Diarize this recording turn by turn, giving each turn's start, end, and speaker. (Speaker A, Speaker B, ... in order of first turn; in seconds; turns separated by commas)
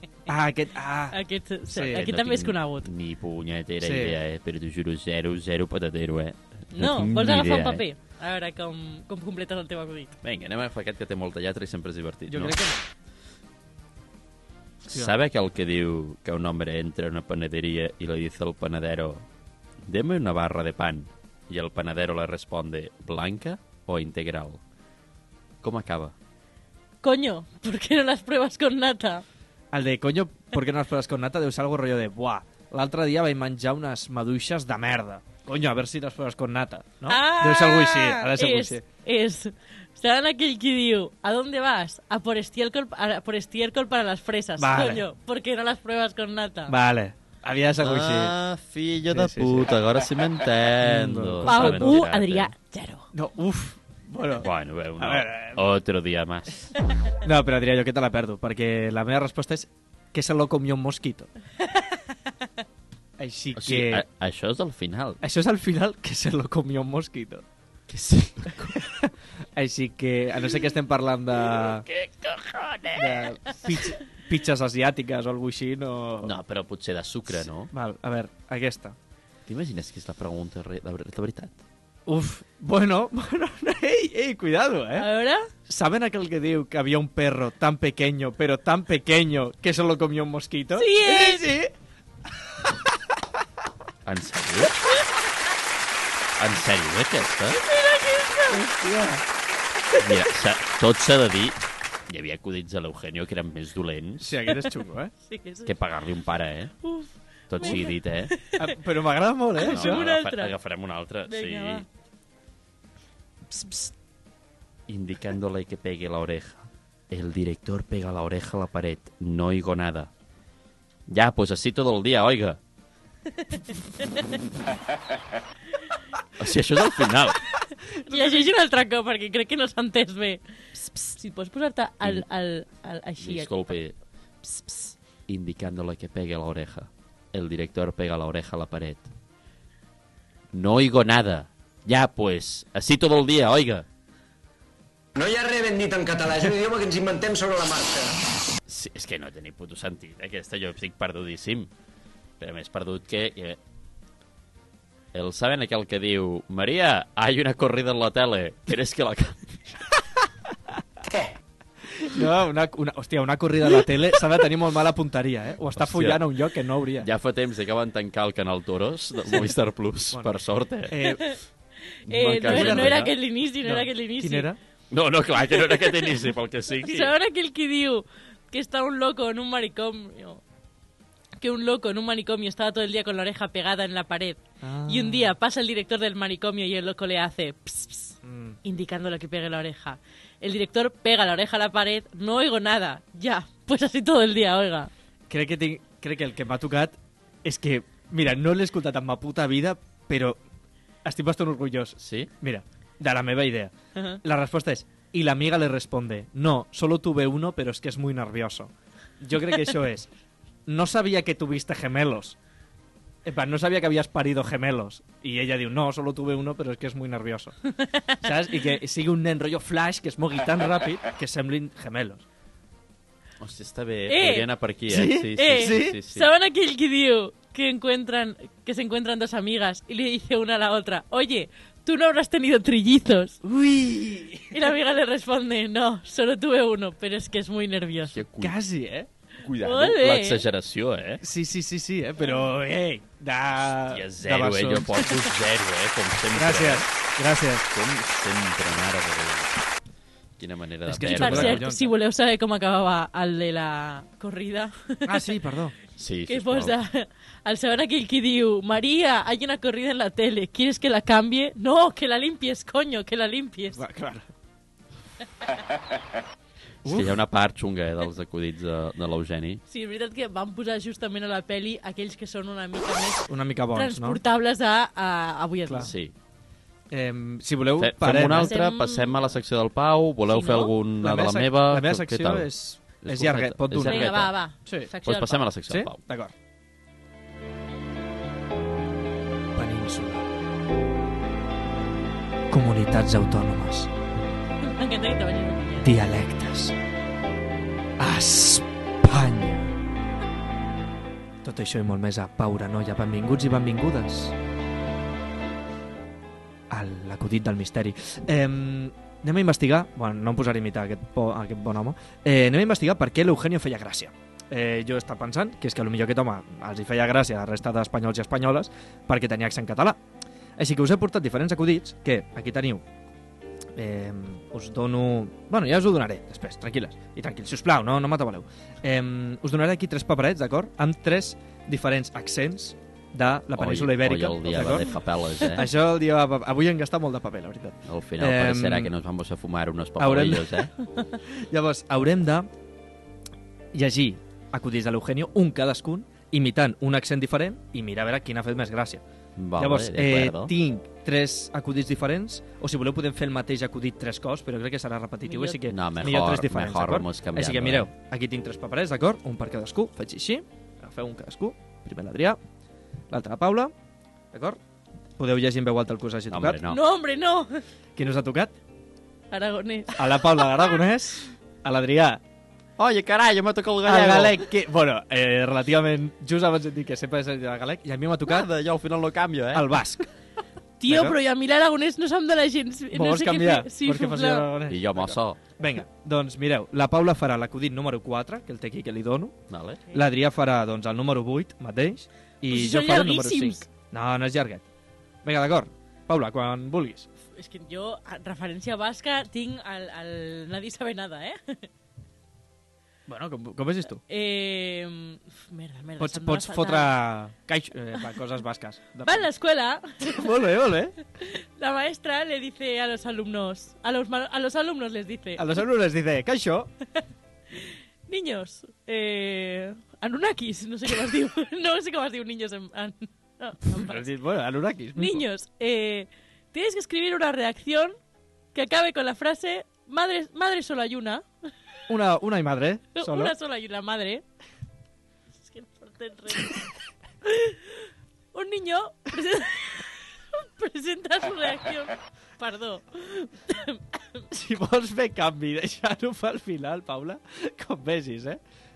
Speaker A: 0.3-1.2, Speaker B: 1.1-2.9, Speaker A: 1.7-2.0, Speaker C: 1.7-7.8, Speaker A: 3.8-4.2, Speaker B: 6.7-10.2, Speaker C: 10.2-12.6, Speaker A: 12.3-12.8, Speaker C: 14.9-19.2, Speaker C: 19.9-24.6, Speaker C: 25.6-26.1, Speaker B: 27.0-29.2, Speaker A: 29.7-38.8, Speaker B: 37.1-46.8, Speaker A: 44.6-45.0, Speaker A: 46.7-48.4, Speaker C: 47.8-52.5, Speaker A: 49.1-49.7, Speaker A: 50.8-52.0, Speaker B: 51.5-53.1, Speaker A: 53.1-55.6, Speaker C: 54.4-56.7, Speaker A: 57.2-61.3, Speaker A: 63.2-64.0, Speaker C: 63.5-65.2, Speaker A: 65.2-67.5, Speaker C: 67.9-68.9, Speaker A: 68.6-71.9, Speaker C: 71.5-73.7, Speaker A: 73.0-76.4, Speaker C: 76.2-77.7, Speaker A: 77.7-79.0, Speaker C: 79.5-81.6, Speaker A: 82.1-85.1, Speaker B: 85.0-85.5, Speaker A: 85.7-91.7, Speaker B: 90.7-91.5, Speaker A: 92.6-93.2, Speaker C: 94.0-94.8, Speaker C: 96.4-97.6, Speaker B: 97.6-98.6, Speaker A: 98.5-99.2, Speaker C: 100.0-101.6, Speaker C: 102.1-104.3, Speaker A: 104.2-105.1, Speaker B: 105.3-105.7, Speaker C: 105.7-106.8, Speaker B: 106.8-108.5, Speaker C: 107.5-108.3, Speaker A: 108.6-110.0, Speaker B: 109.6-110.5, Speaker C: 109.7-111.8, Speaker B: 111.3-111.8, Speaker C: 114.9-120.1, Speaker C: 121.1-122.6, Speaker C: 126.4-127.4, Speaker B: 128.1-133.5, Speaker A: 128.1-128.5, Speaker C: 133.2-133.9, Speaker B: 134.4-134.9, Speaker C: 135.3-139.1, Speaker C: 140.5-143.9, Speaker D: 145.2-148.2, Speaker C: 148.7-151.7, Speaker C: 152.4-153.6, Speaker C: 155.1-159.6, Speaker D: 161.1-161.3, Speaker A: 162.0-167.1, Speaker C: 165.8-166.3, Speaker C: 167.0-171.2, Speaker A: 170.9-171.3, Speaker B: 172.1-174.5, Speaker C: 172.1-173.1, Speaker A: 172.1-174.6, Speaker C: 174.9-177.1, Speaker B: 175.7-176.0, Speaker B: 176.8-180.4, Speaker B: 181.4-194.9, Speaker A: 184.6-185.3, Speaker A: 188.2-188.6, Speaker A: 195.3-200.4, Speaker A: 201.0-210.1, Speaker C: 202.0-202.3, Speaker A: 210.7-212.4, Speaker A: 213.2-217.6, Speaker B: 217.8-218.2, Speaker A: 218.2-222.2, Speaker C: 223.4-226.3, Speaker B: 224.1-224.5, Speaker A: 224.9-226.0, Speaker B: 225.3-233.4, Speaker A: 233.4-234.6, Speaker B: 234.5-238.2, Speaker C: 238.1-238.6, Speaker A: 238.4-239.1, Speaker C: 239.4-241.2, Speaker B: 239.6-240.4, Speaker A: 241.2-245.2, Speaker C: 243.7-246.9, Speaker A: 246.3-247.7, Speaker C: 247.7-249.5, Speaker C: 250.4-251.6, Speaker A: 250.9-251.9, Speaker B: 251.1-255.2, Speaker A: 255.1-255.8, Speaker C: 256.0-256.8, Speaker B: 256.3-263.8, Speaker A: 263.7-264.3, Speaker A: 266.9-267.2, Speaker C: 266.9-269.6, Speaker B: 269.7-275.9, Speaker A: 273.3-274.2, Speaker A: 275.7-275.9, Speaker C: 275.8-276.1, Speaker A: 276.9-278.6, Speaker C: 277.8-282.5, Speaker B: 278.4-279.3, Speaker B: 280.3-280.7, Speaker A: 281.0-284.9, Speaker C: 283.0-284.3, Speaker B: 283.8-285.4, Speaker C: 285.1-286.0, Speaker A: 285.7-286.3, Speaker A: 289.6-290.3, Speaker A: 292.5-293.9, Speaker B: 294.6-295.9, Speaker A: 295.8-296.8, Speaker A: 298.0-299.7, Speaker A: 301.4-304.4, Speaker A: 306.7-320.0, Speaker A: 320.6-322.9, Speaker A: 323.8-338.9, Speaker C: 333.6-335.7, Speaker C: 337.9-340.7, Speaker A: 340.0-340.7, Speaker A: 341.3-342.5, Speaker A: 343.7-349.0, Speaker C: 349.4-350.5, Speaker A: 349.6-362.4, Speaker B: 355.3-355.6, Speaker C: 355.7-357.9, Speaker A: 363.1-363.7, Speaker A: 364.3-364.6, Speaker A: 365.2-366.6, Speaker C: 366.3-366.8, Speaker B: 366.7-367.6, Speaker A: 368.0-368.5, Speaker B: 369.3-370.4, Speaker A: 369.9-372.2, Speaker C: 372.8-374.5, Speaker A: 373.8-378.5, Speaker C: 378.3-379.8, Speaker A: 379.5-380.1, Speaker B: 380.8-384.5, Speaker A: 380.9-381.2, Speaker A: 382.9-389.4, Speaker C: 384.7-385.4, Speaker C: 389.5-389.8, Speaker A: 389.9-394.7, Speaker B: 392.5-393.6, Speaker A: 395.2-397.1, Speaker B: 397.4-401.7, Speaker A: 403.1-404.0, Speaker B: 404.1-406.9, Speaker A: 406.0-409.3, Speaker B: 409.1-410.2, Speaker A: 410.0-410.9, Speaker B: 411.2-415.5, Speaker A: 415.4-416.7, Speaker B: 417.6-424.0, Speaker A: 423.7-425.2, Speaker B: 424.9-428.0, Speaker B: 428.5-431.3, Speaker A: 431.9-433.4, Speaker B: 433.0-434.2, Speaker B: 435.4-436.6, Speaker B: 437.2-444.2, Speaker A: 444.3-448.4